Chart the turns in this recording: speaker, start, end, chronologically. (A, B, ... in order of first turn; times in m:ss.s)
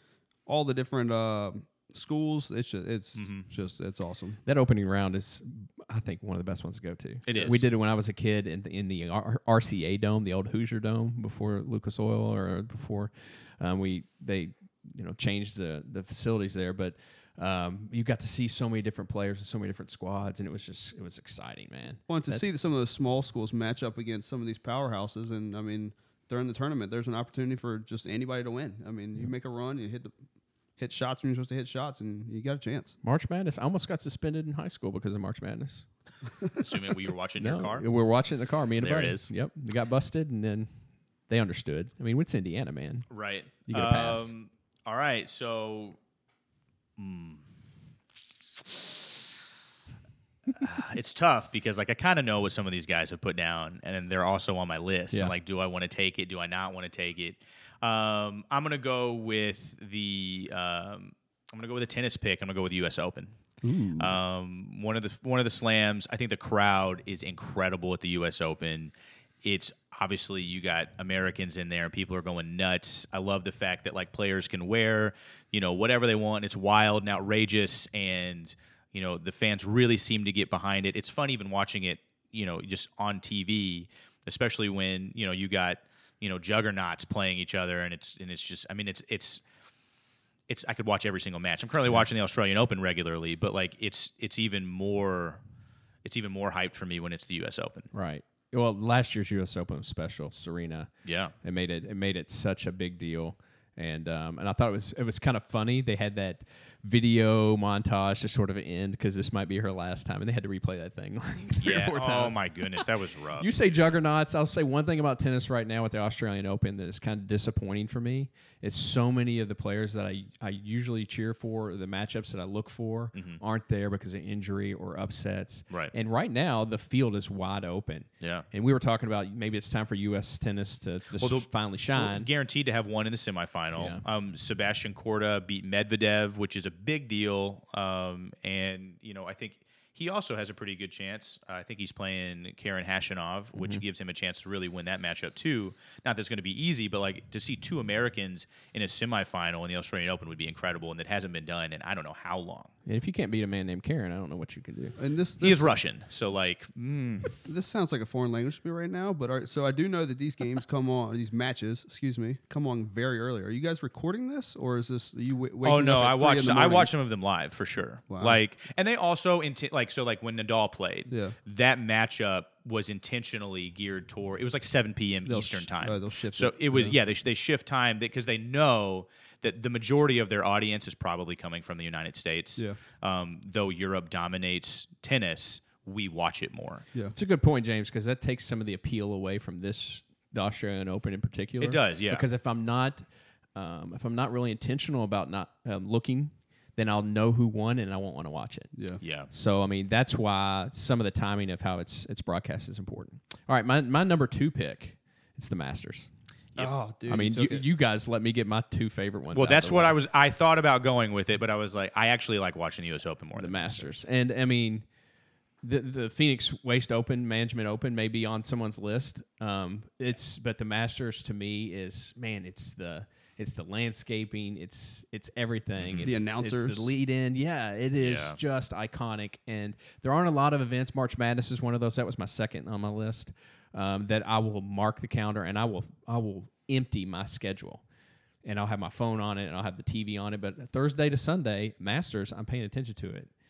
0:00.5-0:04.4 A
0:03.2-0:03.5 B
0:04.4-0:22.4 C
0:07.3-0:07.6 B
0:22.1-0:30.1 A
0:30.8-0:33.0 A
0:33.0-0:35.9 C
0:36.6-0:37.9 B
0:37.4-0:40.7 C
0:38.8-0:39.3 B
0:41.3-0:43.1 C
0:43.1-0:46.0 B
0:43.7-0:44.3 C
0:47.0-0:47.4 B
0:48.6-0:49.2 B
0:50.6-1:03.4 B
1:03.6-1:04.1 C
1:04.0-1:29.4 B
1:30.5-1:35.4 B
1:36.0-1:37.9 B
1:37.9-1:40.9 C
1:41.0-1:41.3 B
1:41.4-2:12.3 C
1:51.6-1:53.5 B
2:03.1-2:03.4 B
2:11.2-2:32.7 B
2:13.7-2:14.0 C
2:23.6-2:23.8 C
2:32.9-2:35.0 C
2:35.0-2:35.7 A
2:35.4-2:37.4 B
2:37.4-2:46.9 A
2:45.6-3:06.8 B
2:48.1-2:48.4 A
2:51.1-2:51.4 A
2:55.3-2:56.9 A
3:07.1-3:18.7 C
3:11.6-3:12.2 B
3:18.7-3:19.0 A
3:19.0-3:19.3 B
3:19.3-3:26.1 C
3:26.6-3:27.6 A
3:27.1-3:30.0 C
3:29.3-3:33.9 B
3:33.4-3:34.8 C
3:35.6-3:57.8 C
3:45.8-3:46.2 B
3:46.0-3:46.9 A
3:48.0-3:48.4 B
3:58.4-4:03.3 C